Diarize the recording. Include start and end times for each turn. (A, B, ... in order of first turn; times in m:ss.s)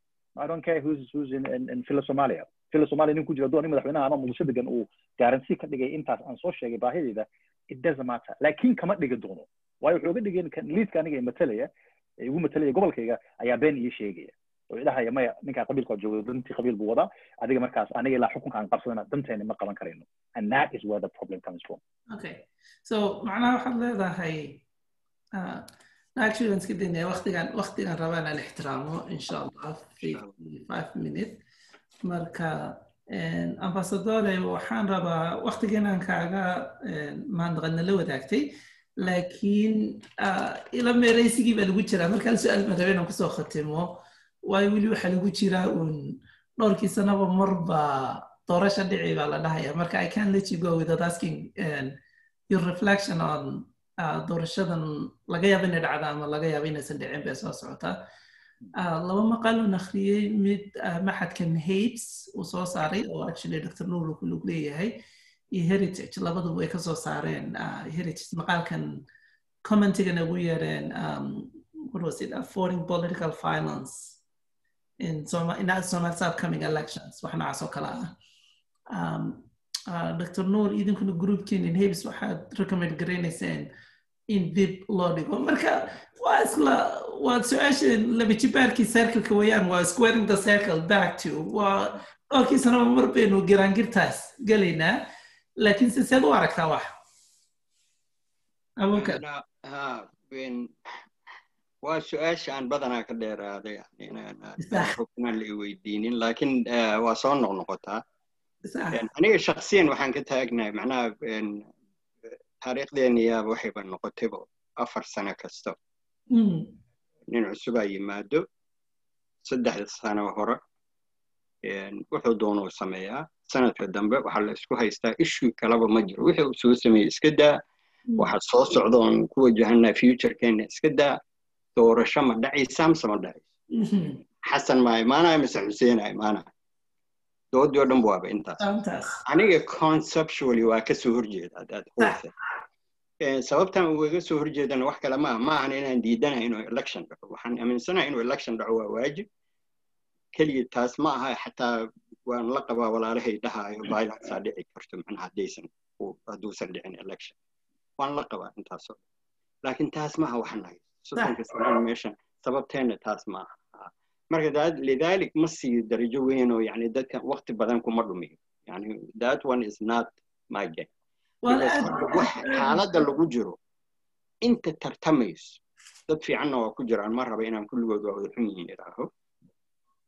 0:00.4-0:11.7 A
0:12.2-0:21.8 A
0:22.1-0:24.6 B
0:25.4-0:31.4 B
0:30.0-0:30.3 C
0:32.0-0:51.9 B
0:52.5-0:58.0 B
0:58.7-1:04.9 B
1:05.5-1:09.0 B
1:09.6-1:14.2 B
1:15.0-1:18.2 B
1:18.9-1:23.7 B
1:24.3-1:35.0 B
1:35.6-1:36.8 B
1:38.8-1:39.2 B
1:38.9-1:41.0 C
1:41.8-1:48.0 C
1:44.6-1:44.9 B
1:48.6-1:49.0 B
1:48.9-1:51.7 C
1:52.2-1:55.7 C
1:56.3-1:56.7 B
1:57.3-1:58.4 C
1:59.4-2:00.6 C
2:01.6-2:07.6 C
2:08.2-2:11.2 C
2:11.8-2:13.5 C
2:13.7-2:14.2 B
2:14.4-2:16.4 C
2:17.5-2:18.6 C
2:18.6-2:19.2 B
2:19.2-2:22.3 C
2:23.2-2:29.2 C
2:30.3-2:37.3 C
2:38.0-2:39.0 C
2:39.6-2:50.9 C
2:51.4-2:52.8 B
2:51.5-2:53.6 C
2:54.4-2:59.1 C